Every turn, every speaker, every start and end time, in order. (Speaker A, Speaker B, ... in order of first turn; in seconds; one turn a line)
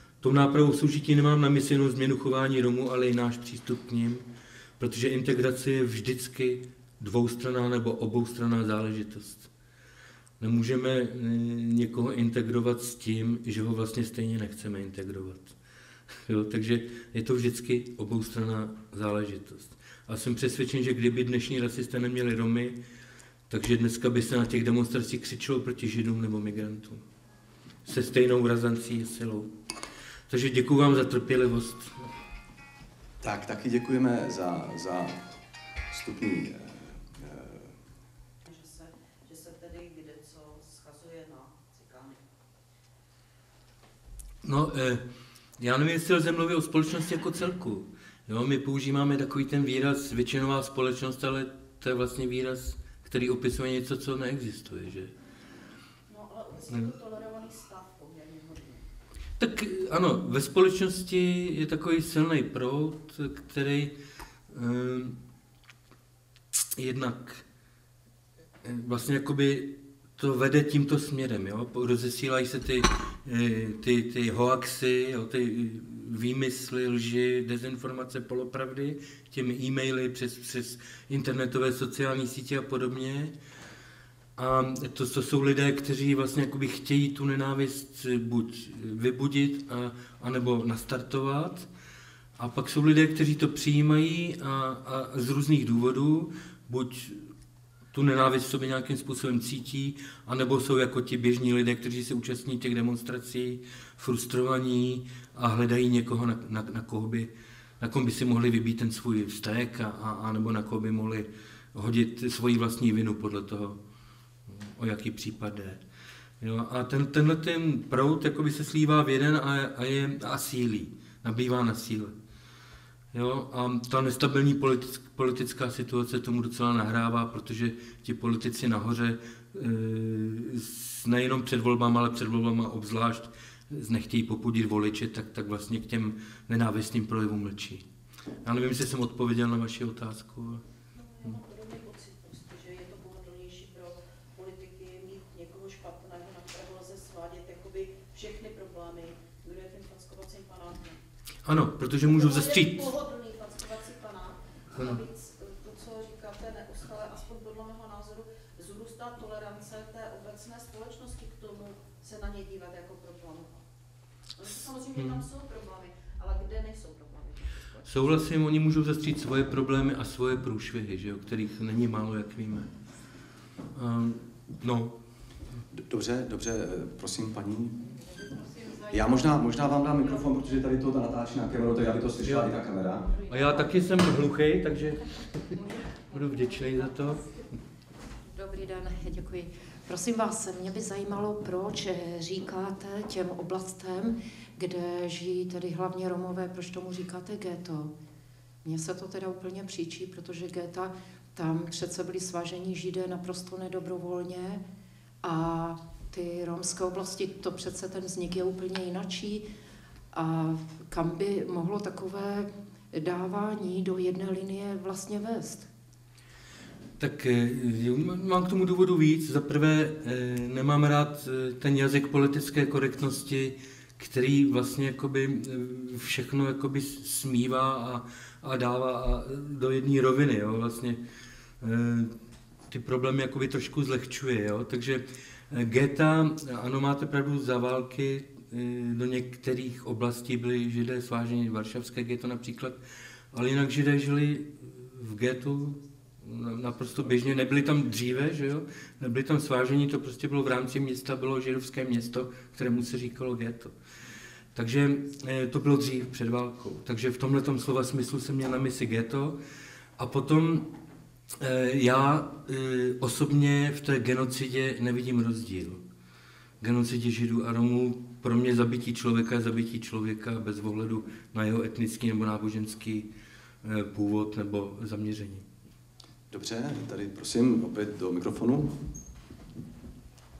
Speaker A: 0.2-4.2
Speaker A: 4.8-9.5
Speaker A: 10.4-15.6
Speaker A: 16.2-22.8
Speaker A: 23.5-27.0
Speaker A: 27.8-29.5
Speaker A: 30.3-32.1
Speaker B: 33.2-35.3
Speaker B: 35.9-37.8
Speaker C: 38.4-42.2
Speaker A: 44.4-45.0
Speaker A: 45.6-55.1
Speaker C: 56.1-58.8
Speaker A: 59.4-63.9
Speaker A: 64.5-65.2
Speaker A: 66.8-67.4
Speaker A: 68.6-83.3
Speaker A: 84.4-91.7
Speaker A: 92.4-97.3
Speaker A: 97.9-113.8
Speaker A: 114.5-115.8
Speaker A: 116.4-122.1
Speaker A: 123.1-137.8
Speaker A: 138.4-140.6
Speaker C: 141.0-151.0
Speaker A: 151.4-152.8
Speaker C: 152.0-163.6
Speaker A: 154.7-155.0
Speaker C: 164.4-167.9
Speaker A: 164.9-165.2
Speaker A: 167.8-172.7
Speaker A: 173.7-174.9
Speaker B: 175.7-177.8
Speaker D: 177.9-180.2
Speaker B: 178.9-183.1
Speaker A: 182.2-182.5
Speaker D: 183.1-183.9
Speaker A: 183.3-185.6
Speaker D: 185.5-187.4
Speaker A: 186.1-187.2
Speaker D: 188.3-197.9
Speaker D: 198.6-204.6
Speaker D: 205.2-209.4
Speaker D: 210.1-215.7
Speaker A: 217.0-231.0
Speaker A: 231.6-232.1
Speaker A: 232.7-242.8
Speaker A: 243.3-253.7
Speaker A: 254.5-259.4
Speaker A: 260.0-260.6
Speaker A: 261.4-265.8
Speaker A: 266.6-273.1
Speaker A: 273.6-275.4
Speaker B: 276.3-278.8